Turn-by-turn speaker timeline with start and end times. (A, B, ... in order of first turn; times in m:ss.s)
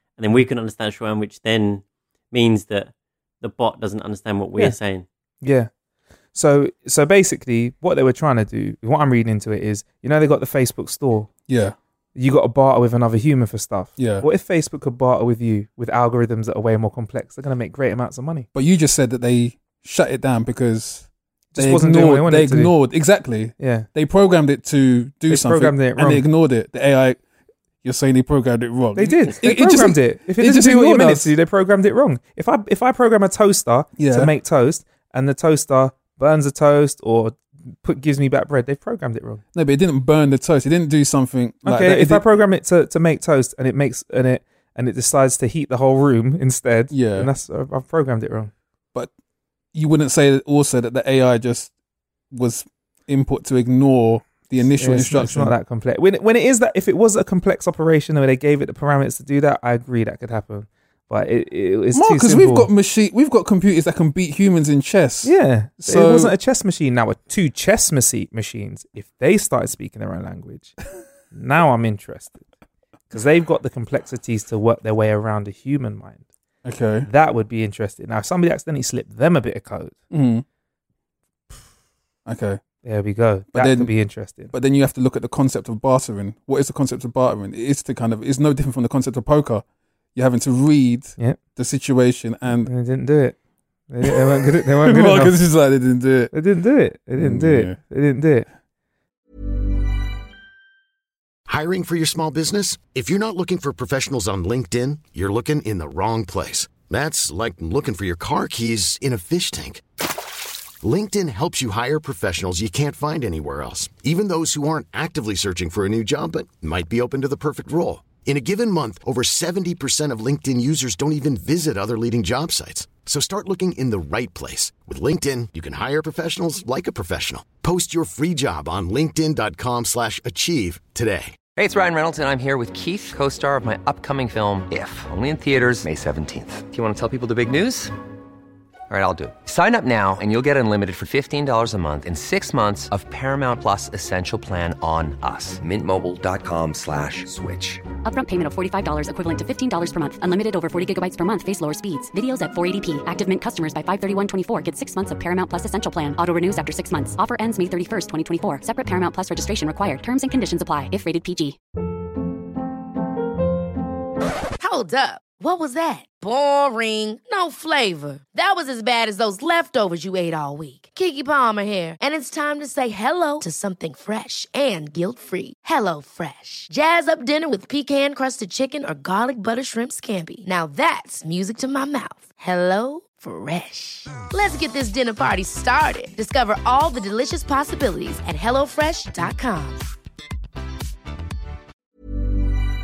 0:00.2-0:05.0 A
0:05.4-0:05.7 B
0:06.3-0:11.3 B
0:11.5-0:11.8 C
0:12.2-0:18.5 B
0:14.0-0:14.3 C
0:18.5-0:27.2 C
0:21.5-0:22.7 B
0:23.6-0:23.9 B
0:25.3-0:26.2 B
0:27.8-0:31.3 C
0:29.0-0:39.4 B
0:34.0-0:34.3 C
0:39.5-0:42.2 C
0:41.6-0:48.5 B
0:46.9-0:47.3 C
0:49.7-0:51.7 C
0:52.3-0:55.6 C
0:54.6-1:02.7 B
1:01.9-1:06.3 C
1:05.2-1:10.8 B
1:11.3-1:12.4 B
1:13.1-1:16.2 B
1:16.6-1:17.1 C
1:17.1-1:20.0 B
1:20.1-1:20.4 C
1:22.3-1:22.6 C
1:22.8-1:24.5 B
1:23.5-1:23.9 C
1:24.5-1:29.6 C
1:30.2-1:32.7 C
1:32.6-1:33.4 B
1:33.9-1:35.4 B
1:34.0-1:36.3 C
1:36.3-1:38.5 B
1:37.2-1:37.8 C
1:41.5-1:49.8 D
1:50.8-2:11.4 D
2:11.6-2:17.9 E
2:18.9-2:27.8 E
2:28.0-2:41.6 F
2:44.6-3:09.8 G